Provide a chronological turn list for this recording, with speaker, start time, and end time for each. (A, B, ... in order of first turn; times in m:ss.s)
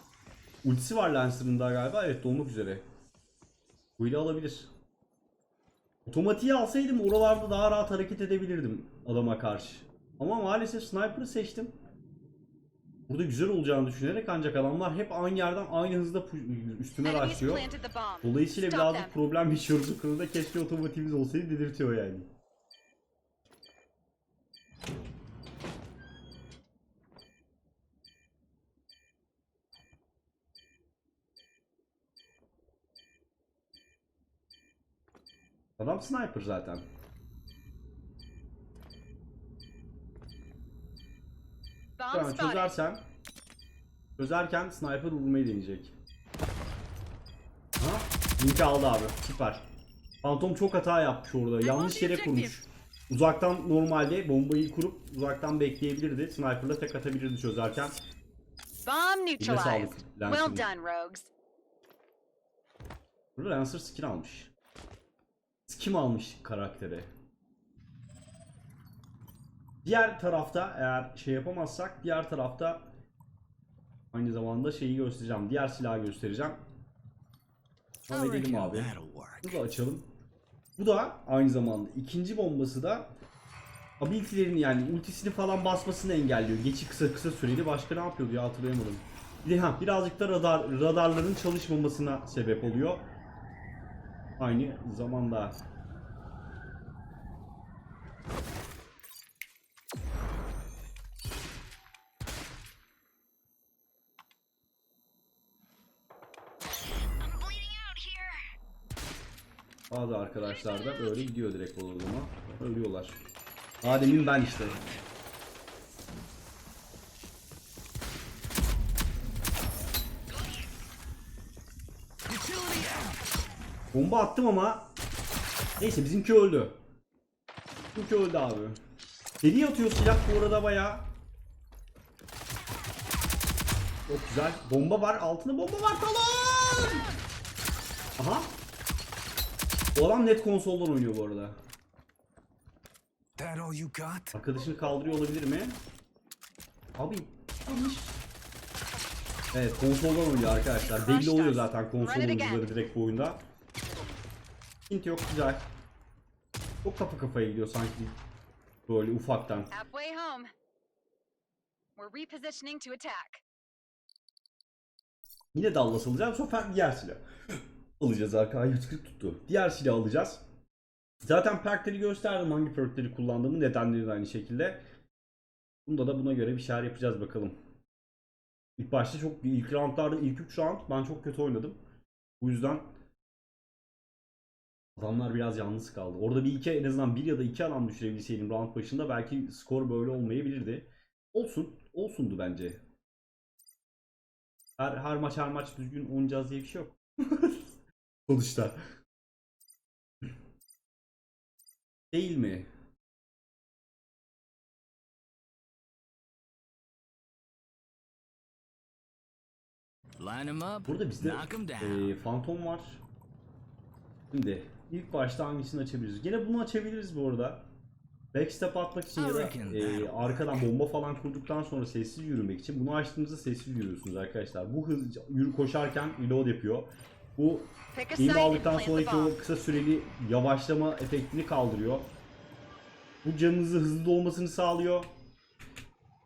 0:00.6-0:02.8 A
0:04.0-0:04.7 A
0:06.1-0:11.7 A
0:13.1-0:17.7 A
0:17.0-0:19.2 B
0:18.2-0:22.3 A
0:35.8-0:36.9 A
0:42.0-0:42.8 B
0:42.1-0:43.0 A
0:44.2-0:45.9 A
0:47.8-0:49.6 A
0:50.2-0:58.0 A
0:51.7-0:52.5 B
0:58.8-1:01.3 B
0:59.4-1:00.7 A
1:03.4-1:04.5 A
1:05.7-1:07.1 A
1:09.8-1:12.9 A
1:14.1-1:16.6 A
1:18.1-1:18.9 A
1:18.1-1:19.6 C
1:19.4-1:20.1 A
1:20.8-1:23.1 A
1:24.0-1:33.1 A
1:34.4-1:35.6 A
1:49.9-1:53.2 A
1:53.8-1:54.8 A
2:02.3-2:03.2 C
2:03.9-2:04.9 A
2:05.8-2:06.8 A
2:08.0-2:08.8 A
2:09.4-2:11.1 A
2:14.1-2:17.1 A
2:18.2-2:18.6 A
2:20.0-2:21.6 A
2:23.4-2:24.3 C
2:24.3-2:25.8 A
2:27.0-2:28.2 A
2:29.5-2:33.4 A
2:30.7-2:32.6 B
2:34.9-2:35.7 A
2:36.8-2:38.2 A
2:38.9-2:39.7 A
2:39.7-2:40.5 B
2:42.0-2:43.4 B
2:45.5-2:47.2 A
2:48.0-2:50.4 A
2:51.2-2:54.8 A
2:55.9-2:57.6 A
2:58.8-3:01.8 A
3:02.4-3:02.9 A
3:05.0-3:12.8 A
3:14.8-3:17.7 A
3:18.3-3:18.8 A
3:22.1-3:22.7 A
3:30.2-3:32.1 C
3:30.9-3:33.0 A
3:34.3-3:37.6 A
3:38.3-3:52.1 A
3:39.2-3:40.6 C
3:47.9-3:49.4 B
3:53.2-3:55.1 A